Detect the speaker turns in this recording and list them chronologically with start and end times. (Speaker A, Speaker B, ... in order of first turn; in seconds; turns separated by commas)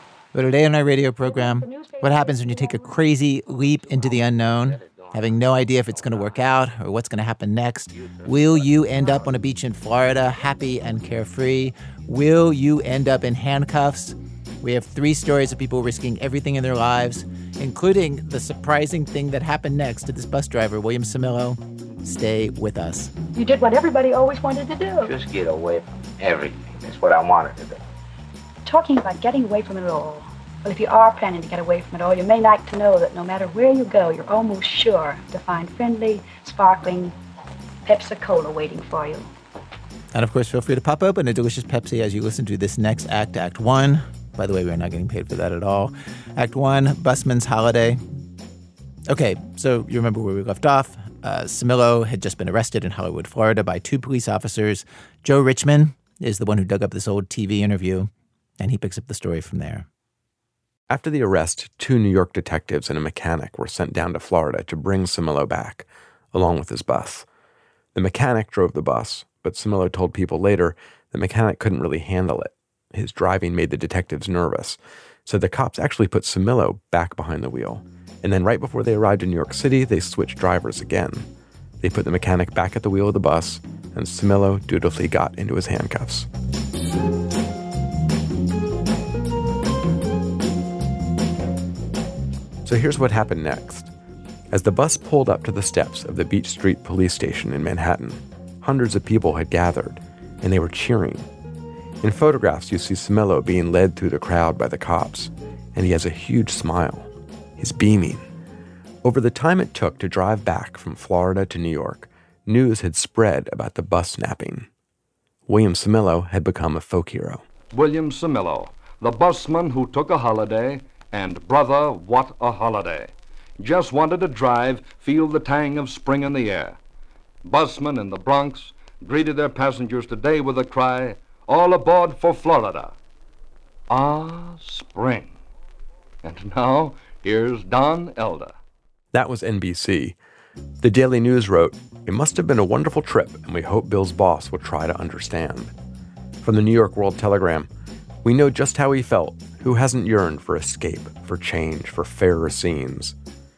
Speaker A: 0.3-23.1, Speaker B: 1.2-3.1, Speaker C: 3.8-6.5, Speaker C: 7.9-9.2, Speaker B: 23.3-25.1, Speaker C: 25.0-27.8, Speaker B: 28.6-37.1, Speaker B: 37.9-39.3, Speaker A: 40.1-48.0, Speaker A: 49.1-59.9, Speaker D: 60.9-67.2, Speaker D: 67.9-81.2, Speaker D: 81.8-86.3, Speaker D: 92.6-93.9, Speaker D: 94.5-101.3, Speaker D: 102.0-108.2, Speaker D: 109.0-114.7, Speaker D: 115.5-117.4, Speaker E: 117.7-126.8, Speaker E: 127.4-132.9, Speaker E: 133.9-135.4, Speaker E: 136.2-138.6, Speaker D: 139.1-140.2, Speaker D: 140.8-145.7, Speaker D: 146.4-147.7, Speaker D: 148.2-153.2